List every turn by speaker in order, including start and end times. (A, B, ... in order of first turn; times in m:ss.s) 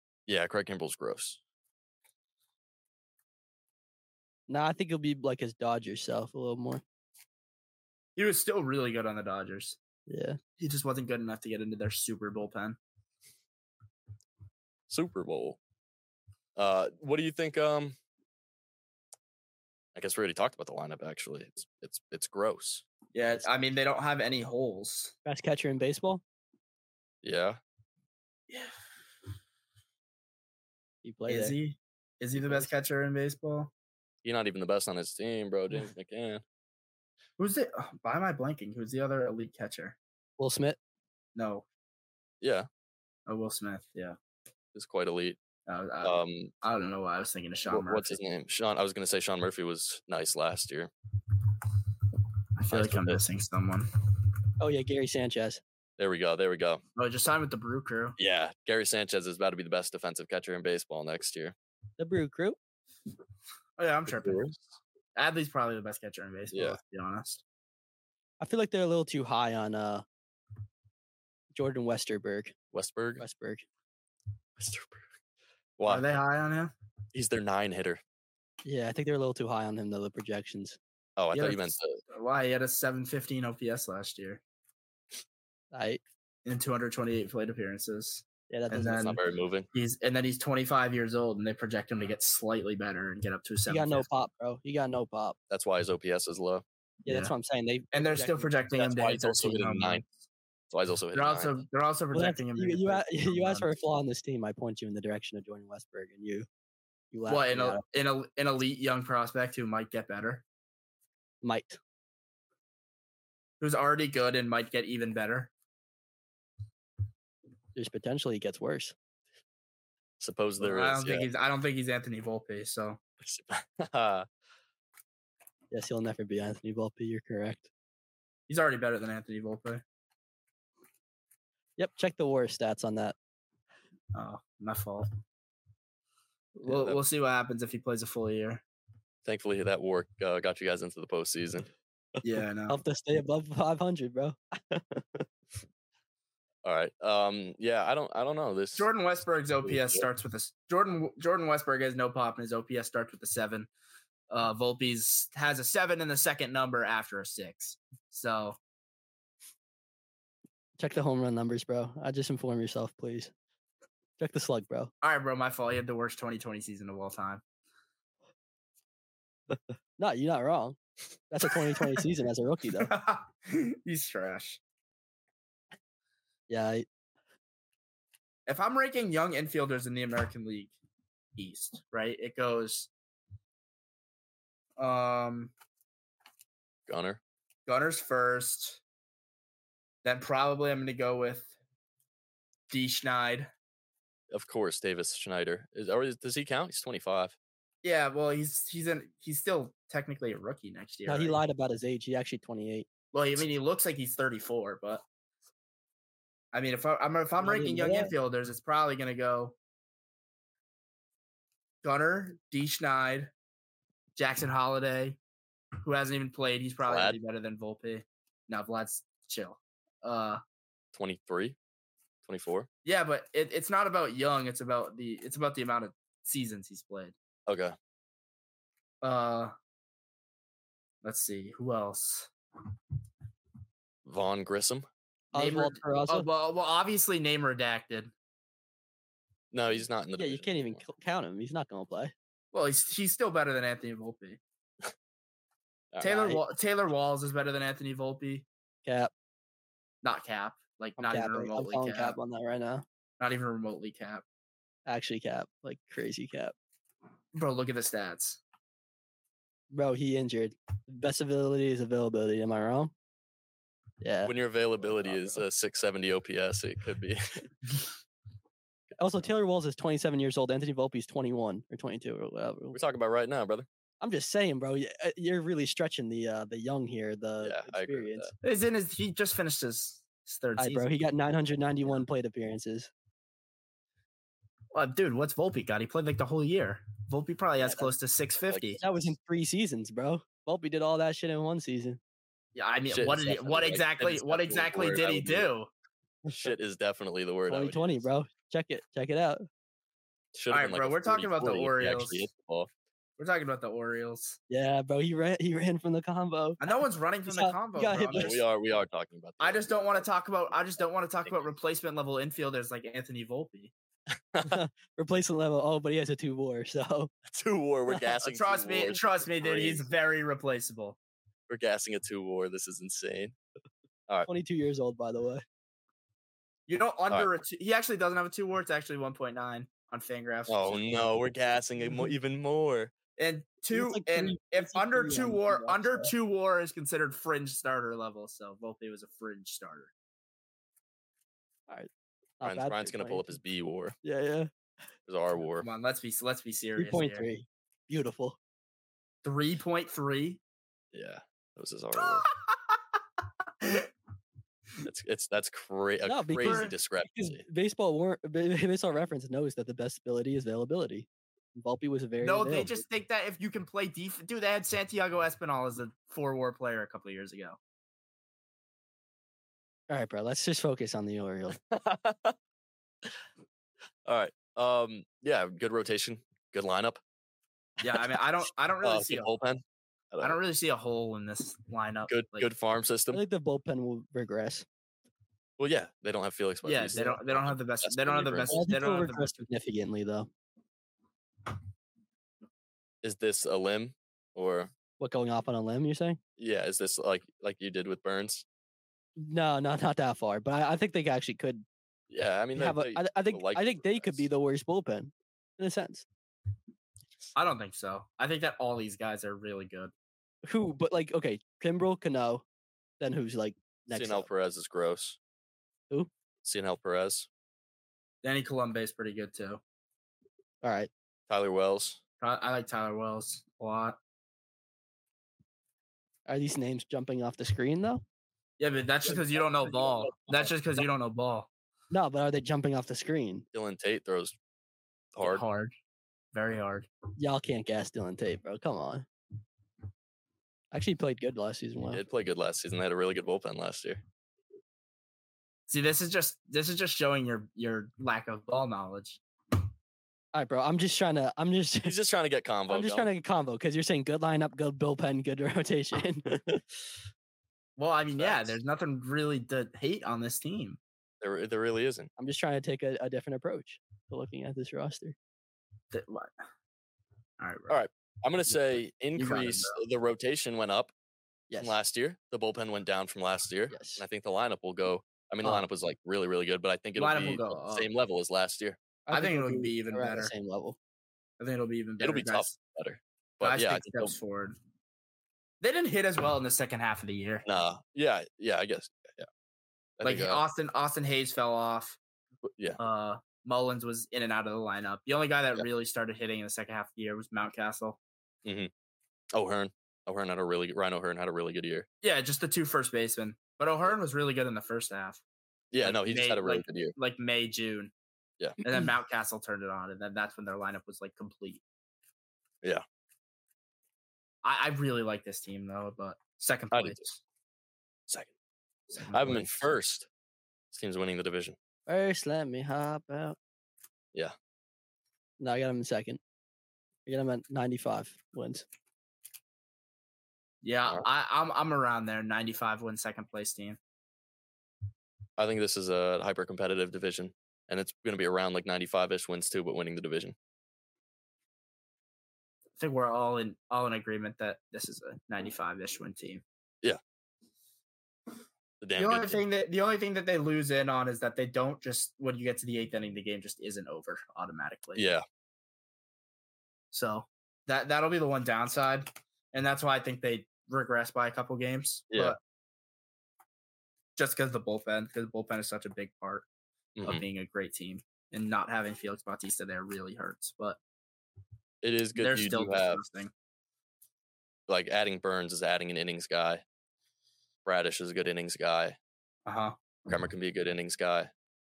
0:00.3-0:01.4 A
0:04.5-0:06.8 B
0:08.2-0:09.8 C
0:10.1-0:10.4 B
0:10.6-0:12.8 C
0:14.9-0:15.6 A
0:16.6-0:18.0 A
0:19.9-0:22.8 A
0:23.1-0:25.1 C
0:25.2-0:26.2 B
0:27.2-0:27.6 A
0:28.5-0:28.7 C
0:31.0-0:31.6 B
0:31.3-0:33.7 C
0:32.4-0:32.7 B
0:34.2-0:36.4 A
0:37.4-0:40.0 C
0:40.4-0:40.8 B
0:41.4-0:41.6 C
0:42.4-0:42.7 A
0:43.3-0:44.2 C
0:44.7-0:45.4 A
0:45.7-0:48.2 C
0:46.0-0:46.5 A
0:47.7-0:50.9 A
0:52.6-0:53.9 C
0:52.7-0:53.2 A
0:54.6-0:55.6 B
0:56.0-0:56.8 A
0:57.0-0:58.2 C
0:58.2-1:01.5 A
1:02.0-1:02.6 B
1:03.8-1:04.5 C
1:04.1-1:04.6 A
1:05.2-1:07.4 C
1:06.5-1:06.8 A
1:08.4-1:10.0 B
1:11.5-1:12.5 B
1:12.7-1:13.2 A
1:13.2-1:13.6 B
1:14.6-1:15.0 A
1:15.8-1:16.0 A
1:15.8-1:16.7 C
1:17.1-1:18.0 A
1:18.6-1:20.8 B
1:21.2-1:22.0 A
1:21.3-1:24.4 C
1:25.7-1:26.0 B
1:26.4-1:29.2 C
1:28.5-1:29.0 B
1:28.9-1:29.7 A
1:29.7-1:34.1 C
1:33.6-1:35.4 B
1:35.5-1:36.6 A
1:37.0-1:37.3 C
1:37.0-1:38.5 B
1:37.9-1:40.0 C
1:38.7-1:40.1 A
1:40.7-1:41.6 A
1:41.1-1:43.7 C
1:42.1-1:46.5 B
1:47.1-1:47.8 B
1:47.3-1:50.4 C
1:51.4-1:51.8 B
1:53.6-1:55.5 C
1:57.7-1:58.9 B
2:00.2-2:01.3 A
2:00.6-2:03.0 C
2:03.2-2:04.3 A
2:05.7-2:07.7 B
2:08.5-2:09.8 C
2:11.8-2:13.2 B
2:14.1-2:15.1 C
2:16.6-2:18.6 C
2:16.6-2:17.0 A
2:19.2-2:21.7 A
2:22.2-2:22.8 C
2:22.7-2:25.2 B
2:26.6-2:28.9 A
2:28.7-2:33.7 C
2:29.6-2:30.0 A
2:34.3-2:38.6 C
2:40.8-2:43.3 B
2:44.2-2:44.9 B
2:45.0-2:47.4 C
2:50.0-2:50.8 B
2:51.3-2:52.9 B
2:52.8-2:54.6 C
2:56.5-2:56.8 B
2:58.5-3:00.7 C
3:01.4-3:02.9 C
3:04.8-3:05.5 C
3:06.9-3:07.2 A
3:07.7-3:08.8 C
3:10.0-3:11.5 C
3:12.7-3:13.5 C
3:14.3-3:17.4 A
3:17.8-3:21.4 C
3:21.0-3:22.9 B
3:23.1-3:25.0 C
3:26.5-3:29.6 C
3:27.4-3:28.1 B
3:31.8-3:33.3 C
3:34.2-3:35.2 C
3:35.8-3:40.4 C
3:36.8-3:37.2 A
3:40.9-3:41.6 A
3:42.2-3:42.7 A
3:42.8-3:47.1 C
3:47.4-3:47.7 A
3:49.0-3:49.5 C
3:51.0-3:52.3 C
3:54.0-3:54.8 A
3:55.3-3:56.3 B
3:55.3-3:58.1 C
3:59.5-4:00.8 A
4:00.2-4:02.1 B
4:02.5-4:04.4 C
4:05.9-4:06.2 A
4:06.0-4:08.4 C
4:06.0-4:06.4 B
4:08.8-4:09.1 B
4:10.0-4:12.2 C
4:11.0-4:12.8 B
4:13.2-4:14.2 C
4:14.9-4:16.5 B
4:17.3-4:18.4 C
4:19.7-4:22.9 B
4:24.0-4:25.4 B
4:24.2-4:27.5 A
4:29.0-4:32.8 B
4:32.7-4:33.7 A
4:34.0-4:38.3 B
4:37.4-4:38.3 A
4:38.4-4:40.8 C
4:40.6-4:42.9 B
4:44.7-4:48.8 C
4:47.6-4:47.9 B
4:48.5-4:49.0 A
4:48.8-4:52.0 B
4:52.6-4:55.7 C
4:52.9-4:55.5 A
4:56.3-4:56.5 B
4:56.3-4:58.0 A
4:57.5-4:59.4 B
5:00.3-5:02.7 A
5:00.5-5:02.3 C
5:03.2-5:04.4 C
5:04.5-5:06.8 B
5:06.6-5:08.4 C
5:07.3-5:08.4 B
5:08.1-5:10.0 A
5:09.4-5:13.7 C
5:14.4-5:17.1 B
5:17.3-5:19.9 A
5:17.9-5:18.1 B
5:18.2-5:21.0 C
5:21.5-5:23.4 A
5:24.2-5:25.4 B
5:26.7-5:31.1 C
5:27.1-5:27.4 A
5:30.5-5:32.9 A
5:33.2-5:39.9 C
5:33.7-5:36.1 B
5:41.7-5:43.4 B
5:42.4-5:44.0 A
5:44.0-5:44.5 B
5:45.0-5:45.7 A
5:45.6-5:47.3 C
5:46.8-5:48.4 B
5:49.2-5:50.4 C
5:50.9-5:52.3 A
5:53.6-5:53.9 C
5:54.8-5:57.4 A
5:56.0-6:02.8 B
5:56.4-5:56.7 C
6:02.2-6:07.6 C
6:09.9-6:11.6 B
6:11.5-6:12.4 A
6:14.0-6:17.0 A
6:17.8-6:19.3 C
6:18.8-6:20.4 A
6:20.2-6:22.5 C
6:22.1-6:23.2 A
6:23.1-6:24.6 B
6:25.6-6:28.7 A
6:26.6-6:29.3 C
6:28.5-6:30.3 B
6:33.0-6:34.7 A
6:35.0-6:36.2 B
6:36.4-6:38.4 A
6:39.2-6:41.6 B
6:42.1-6:44.3 A
6:42.5-6:46.0 B
6:47.4-6:49.9 C
6:50.4-6:52.4 B
6:53.0-6:54.3 B
6:53.9-6:55.2 A
6:56.4-6:57.3 A
6:58.2-6:59.6 C
7:00.6-7:00.9 B
7:01.3-7:02.0 A
7:02.2-7:04.0 C
7:06.3-7:08.0 B
7:08.6-7:11.5 C
7:09.2-7:10.4 A
7:11.9-7:13.4 B
7:13.5-7:14.4 A
7:15.1-7:15.4 A
7:15.2-7:15.7 C
7:16.3-7:16.9 C
7:17.2-7:19.0 B
7:20.7-7:22.0 B
7:21.9-7:24.0 A
7:25.7-7:29.2 C
7:30.3-7:32.0 B
7:31.8-7:33.1 A
7:32.7-7:36.6 B
7:37.8-7:40.8 C
7:38.2-7:38.6 A
7:41.2-7:42.1 A
7:42.2-7:45.2 B
7:45.9-7:46.3 C
7:47.4-7:47.8 C
7:47.7-7:50.9 A
7:49.2-7:49.8 C
7:51.5-7:51.8 B
7:51.6-7:58.8 A
7:53.7-7:54.0 B
7:56.9-7:57.9 C
7:59.1-8:00.8 B
7:59.1-8:00.3 C
8:01.4-8:02.6 C
8:02.0-8:04.2 A
8:03.4-8:04.6 C
8:05.6-8:07.4 C
8:07.4-8:09.3 A
8:10.0-8:10.4 A
8:10.0-8:12.0 C
8:12.8-8:18.0 C
8:18.4-8:18.7 A
8:19.4-8:21.9 A
8:22.0-8:25.2 C
8:25.7-8:26.9 A
8:25.8-8:27.9 C
8:28.6-8:31.6 C
8:34.4-8:37.2 C
8:36.7-8:37.0 A
8:38.9-8:39.5 C
8:39.1-8:40.1 A
8:40.7-8:41.6 A
8:41.9-8:43.4 B
8:45.4-8:46.2 B
8:47.0-8:48.6 B
8:50.6-8:53.8 C
8:55.4-9:00.4 A
9:02.8-9:06.4 C
9:08.8-9:09.4 A
9:09.0-9:15.1 C
9:15.0-9:15.2 A
9:16.9-9:22.4 C
9:24.2-9:26.4 C
9:27.0-9:27.2 A
9:27.0-9:30.8 C
9:31.8-9:33.0 A
9:32.1-9:33.3 C
9:34.7-9:36.6 A
9:37.6-9:39.0 A
9:39.4-9:39.8 C
9:40.1-9:41.3 A